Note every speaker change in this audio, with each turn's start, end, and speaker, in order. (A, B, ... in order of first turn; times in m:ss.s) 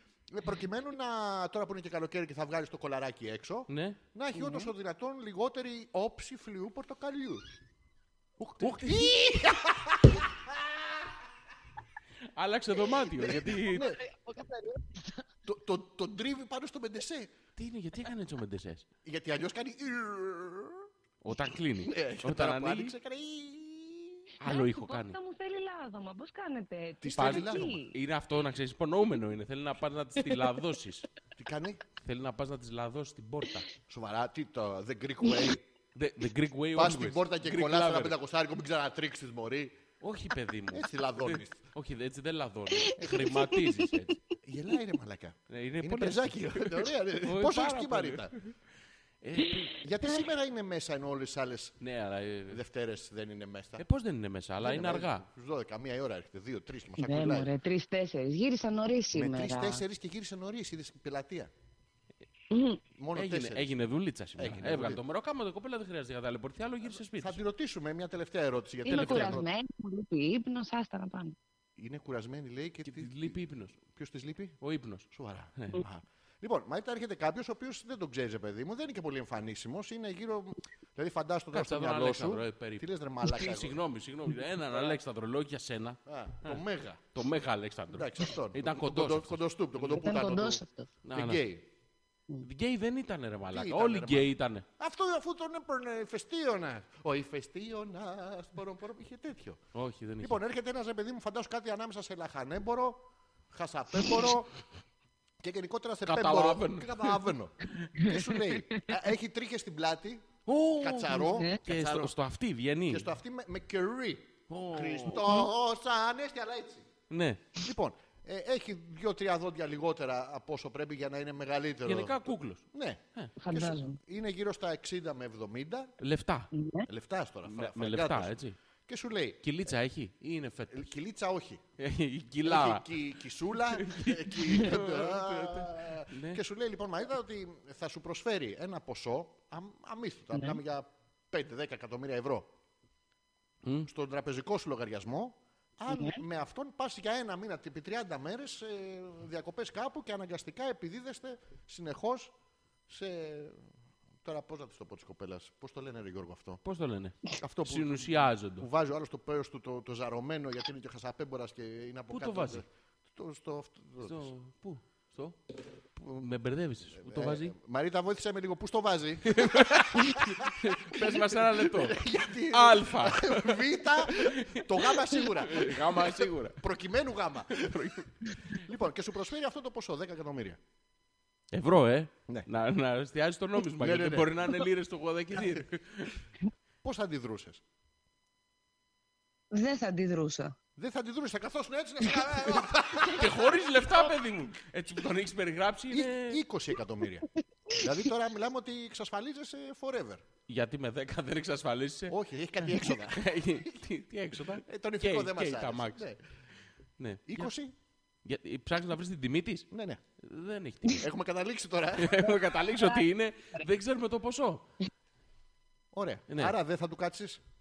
0:00.3-0:07.4 A
0:03.7-0:04.0 B
0:08.4-0:11.1 A
0:08.6-0:09.2 B
0:12.4-0:13.9 B
0:13.2-0:14.0 A
0:13.7-0:15.3 C
0:15.5-0:17.3 A
0:17.6-0:18.8 B
0:19.0-0:20.9 A
0:21.2-0:22.9 B
0:21.8-0:24.3 A
0:24.4-0:25.2 B
0:24.4-0:27.9 C
0:27.0-0:27.8 A
0:27.2-0:31.1 B
0:31.4-0:31.8 A
0:32.0-0:33.7 B
0:33.9-0:35.6 A
0:35.9-0:38.1 B
0:36.7-0:39.8 A
0:40.0-0:44.2 B
0:40.7-0:41.6 A
0:42.8-0:43.8 C
0:43.0-0:43.3 A
0:44.4-0:48.3 A
0:45.5-0:48.5 B
0:49.2-0:49.8 B
0:49.8-0:51.8 A
0:51.8-0:52.6 B
0:52.5-0:53.8 A
0:53.8-0:55.2 B
0:54.6-0:57.5 A
0:57.0-0:59.8 C
0:59.1-1:01.5 A
1:02.5-1:02.8 C
1:03.0-1:03.7 A
1:03.1-1:07.4 B
1:04.4-1:05.0 A
1:07.1-1:09.5 A
1:08.8-1:11.4 C
1:08.9-1:09.4 B
1:11.8-1:14.6 A
1:12.8-1:13.8 B
1:14.6-1:15.8 B
1:15.1-1:23.8 A
1:21.5-1:26.6 B
1:24.7-1:25.0 A
1:26.1-1:27.2 A
1:27.1-1:30.0 B
1:27.9-1:30.6 A
1:30.0-1:30.9 C
1:31.0-1:31.4 B
1:31.1-1:31.7 A
1:32.4-1:34.6 B
1:33.5-1:39.6 A
1:39.7-1:40.4 B
1:40.2-1:44.5 A
1:45.4-1:52.1 A
1:46.0-1:47.2 B
1:48.0-1:48.9 C
1:50.4-1:53.1 B
1:51.2-1:51.6 C
1:52.9-1:56.8 A
1:54.5-1:55.4 B
1:57.1-1:57.4 B
1:57.6-2:05.9 A
2:01.8-2:02.6 B
2:03.4-2:04.0 C
2:06.0-2:06.5 B
2:06.5-2:06.9 C
2:06.9-2:08.3 A
2:07.5-2:08.5 B
2:08.9-2:09.4 A
2:09.4-2:10.9 B
2:10.7-2:11.6 A
2:11.8-2:13.1 B
2:12.4-2:22.5 A
2:13.6-2:16.4 B
2:23.9-2:32.3 A
2:25.9-2:26.2 C
2:32.9-2:33.6 A
2:34.2-2:36.6 A
2:36.6-2:38.6 B
2:37.4-2:44.3 A
2:42.1-2:42.6 B
2:44.0-2:45.4 B
2:46.0-2:47.5 B
2:47.0-2:58.0 A
2:49.3-2:52.0 B
2:52.5-2:56.6 B
2:57.5-2:58.3 B
2:58.5-3:00.6 A
3:01.5-3:06.1 B
3:03.7-3:04.6 A
3:06.8-3:07.6 A
3:09.5-3:10.5 C
3:10.8-3:13.6 A
3:13.1-3:16.4 B
3:15.9-3:17.2 A
3:17.8-3:20.2 A
3:20.5-3:22.1 B
3:22.1-3:23.8 A
3:23.1-3:26.0 B
3:24.6-3:26.2 A
3:27.0-3:27.5 B
3:27.3-3:27.7 A
3:28.2-3:29.7 B
3:29.7-3:30.0 A
3:30.2-3:31.0 B
3:31.0-3:32.2 A
3:32.0-3:34.6 B
3:35.9-3:37.4 A